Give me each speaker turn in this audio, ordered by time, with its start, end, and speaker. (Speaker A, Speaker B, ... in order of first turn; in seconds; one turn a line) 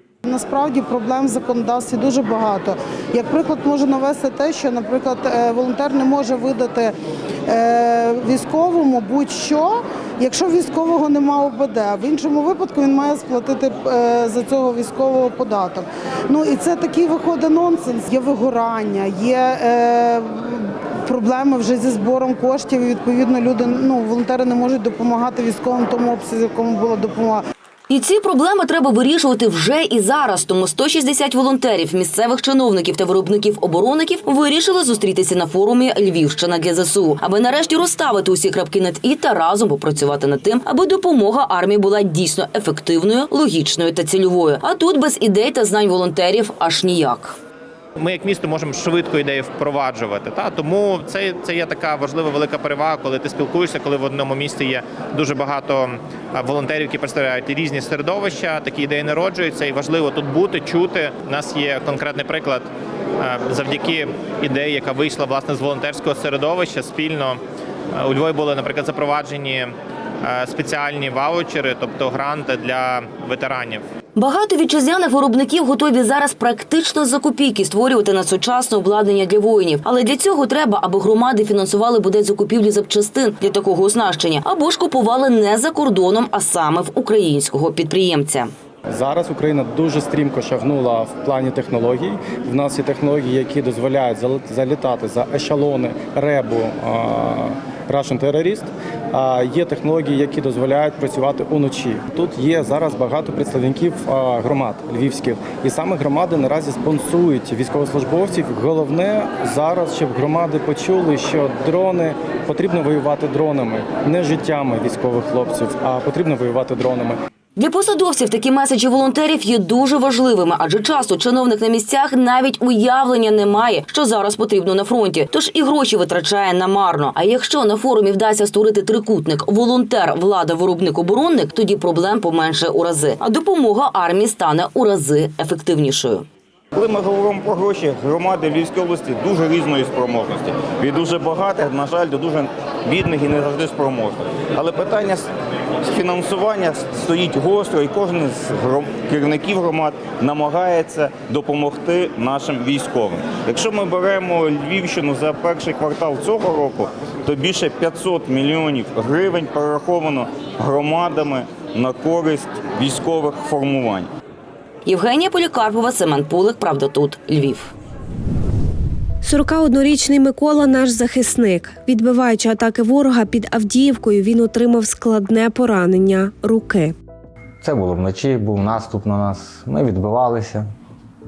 Speaker A: 0.2-6.9
Speaker A: 7.5-27.4
Speaker B: 27.9-47.4
Speaker C: 48.0-62.7
Speaker C: 63.2-67.4
Speaker C: 68.0-69.7
Speaker C: 70.2-73.8
Speaker B: 74.2-88.5
Speaker D: 88.9-117.2
Speaker B: 117.5-136.2
Speaker E: 136.7-145.3
Speaker E: 145.8-164.1
Speaker B: 164.8-167.7
Speaker F: 169.2-176.9
Speaker G: 177.6-180.7